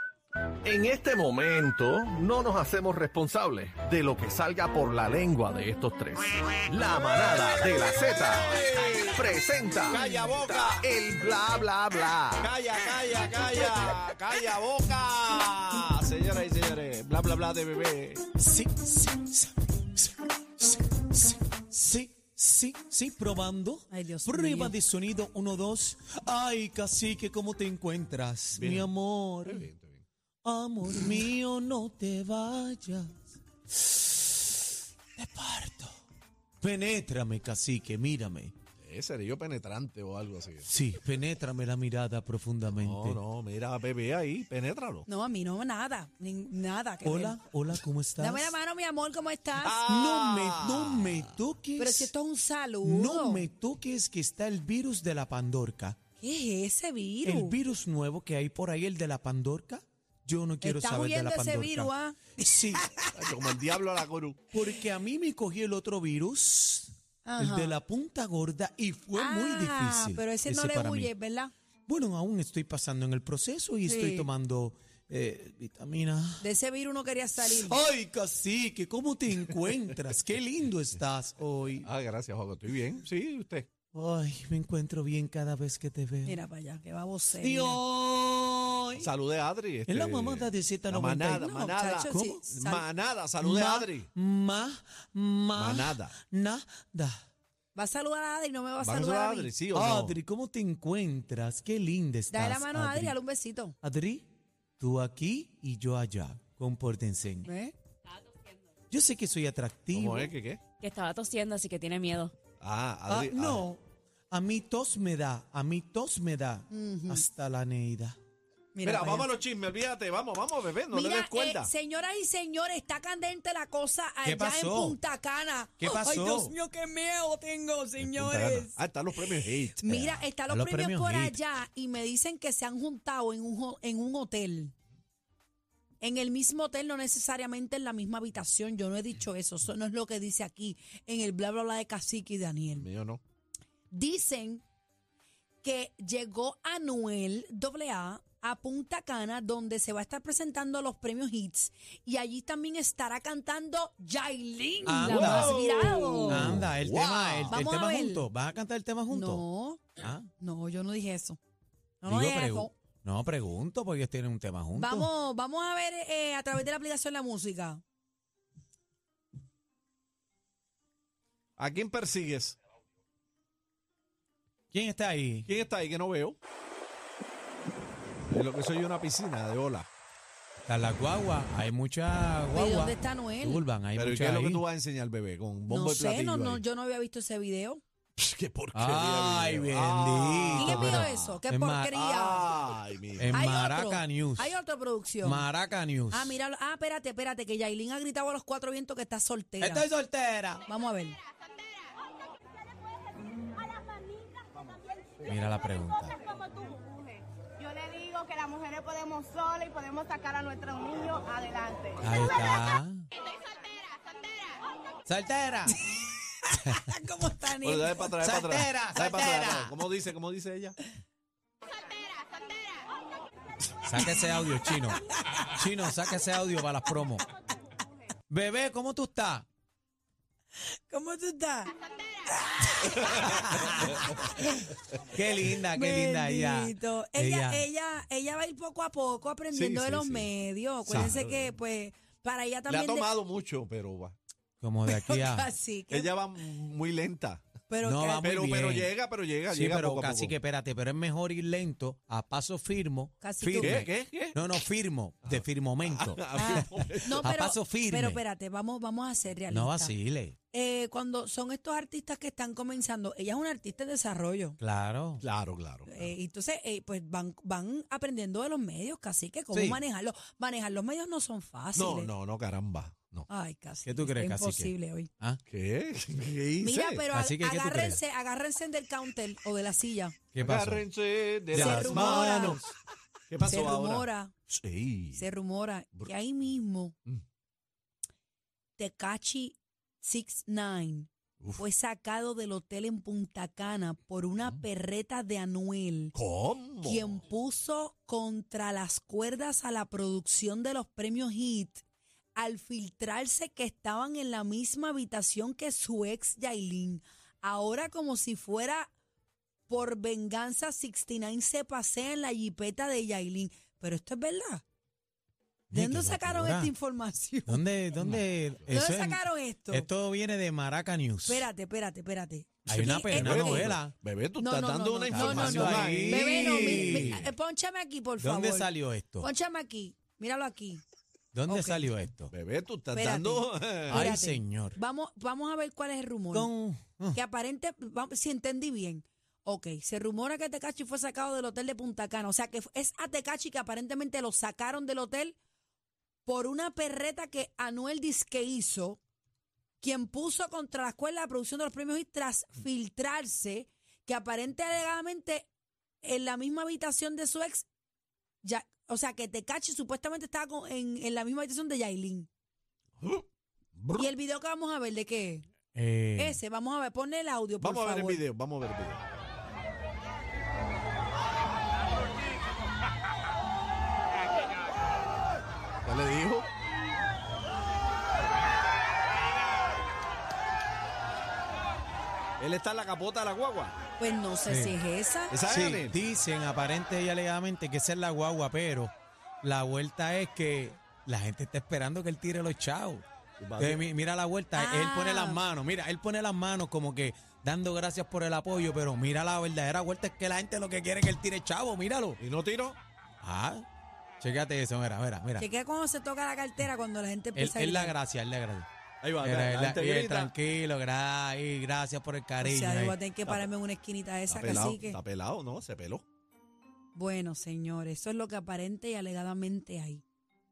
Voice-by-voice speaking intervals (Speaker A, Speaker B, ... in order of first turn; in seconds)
Speaker A: 0.6-13.2, 156.3-157.6
Speaker B: 7.6-9.1, 9.9-10.8, 12.4-18.3, 28.5-28.9, 29.5-30.0, 38.8-40.7, 42.7-45.1, 49.6-51.3, 63.1-64.4, 81.8-83.7, 89.0-94.1, 95.5-96.1, 98.8-100.2, 109.9-110.6, 112.6-113.7, 118.8-121.7, 128.0-130.0, 142.8-143.2, 155.0-156.4, 171.6-172.6, 175.4-176.4, 178.3-179.9, 183.9-186.6, 188.2-191.4, 191.9-193.4, 217.6-220.8, 233.0-233.9, 239.5-240.3, 240.8-241.5, 242.7-244.2, 245.9-247.4, 248.2-250.3, 253.6-254.4, 255.2-257.3, 265.2-265.9, 271.7-273.3, 275.5-277.0, 280.4-282.7, 283.3-285.2, 296.1-297.2, 318.0-318.2, 323.1-327.3, 332.3-334.0, 363.0-363.2, 363.8-364.1, 367.6-369.0, 375.8-376.5, 382.4-383.8, 385.3-386.0, 393.4-393.8, 402.2-402.8, 409.0-410.3, 414.3-416.0
Speaker C: 18.4-29.7, 30.4-33.1, 33.7-34.6, 35.1-35.9, 36.6-38.5, 40.6-43.2, 47.0-48.5, 49.9-52.1, 52.8-56.0, 57.2-62.9, 64.5-71.1, 71.9-76.5, 77.4-81.9, 83.9-86.4, 87.4-89.1, 89.9-91.5, 92.1-92.4, 93.4-97.2, 99.7-103.2, 103.8-104.3, 104.8-107.5, 108.9-110.3, 113.1-118.2, 124.2-125.0, 125.8-126.5, 129.9-131.4, 154.8-155.6, 156.2-159.4, 160.0-160.3, 162.1-165.1, 174.7-175.5, 180.7-184.6, 188.7-191.9, 193.2-194.6, 195.2-196.3, 199.6-200.6, 205.2-206.2, 212.0-213.1, 215.1-215.8, 218.2-219.7, 223.8-227.2, 228.3-229.5, 233.4-234.0, 235.0-237.7, 244.6-245.5, 247.8-248.9, 249.5-258.2, 259.5-260.4, 264.6-265.2, 269.5-269.8, 273.8-275.4, 277.1-278.0, 280.3-280.8, 281.5-282.6, 315.7-316.7, 317.5-321.5, 322.7-323.9, 325.1-327.2, 328.2-329.3, 331.3-332.3, 333.9-334.8, 336.3-337.2, 365.7-366.4, 384.4-384.8, 385.4-393.0, 393.6-402.2, 403.2-403.6, 404.2-405.5, 407.3-408.7, 409.2-413.0
Speaker D: 23.9-24.7, 45.1-47.4, 48.2-49.8, 51.8-53.5, 56.2-57.6, 60.6-63.1, 67.2-67.8, 69.1-71.5, 73.8-74.3, 76.4-77.8, 86.2-87.8, 91.3-92.8, 97.7-99.5, 102.3-103.8, 107.4-107.7, 116.7-117.2, 118.7-119.3, 120.9-134.7, 136.0-142.8, 143.9-144.6, 145.6-156.6, 157.5-158.3, 159.1-159.8, 160.4-161.4, 162.0-162.7, 164.7-167.8, 182.5-183.7, 185.7-187.8, 190.6-192.5, 193.3-195.5, 196.1-199.9, 200.7-201.2, 216.4-218.1, 230.9-231.7, 232.4-234.7, 235.3-243.1, 244.8-246.2, 247.7-248.4, 253.2-253.9, 256.3-259.9, 260.5-264.6, 265.9-272.1, 273.3-275.1, 276.6-280.1, 281.5-282.6, 283.4-284.3, 285.1-286.9, 288.8-296.1, 296.8-301.8, 302.3-308.9, 309.7-314.6, 315.7-317.6, 318.7-319.9, 321.2-323.7, 324.4-330.8, 331.5-331.9, 332.9-336.5, 337.1-345.4, 346.2-349.0, 349.8-355.5, 356.0-357.6, 358.4-362.3, 363.9-365.4, 366.2-368.2, 384.0-385.4, 394.5-395.4, 405.4-407.9, 412.4-415.0, 416.9-420.0
Speaker E: 110.8-112.3, 155.0-156.3
Speaker F: 208.0-211.5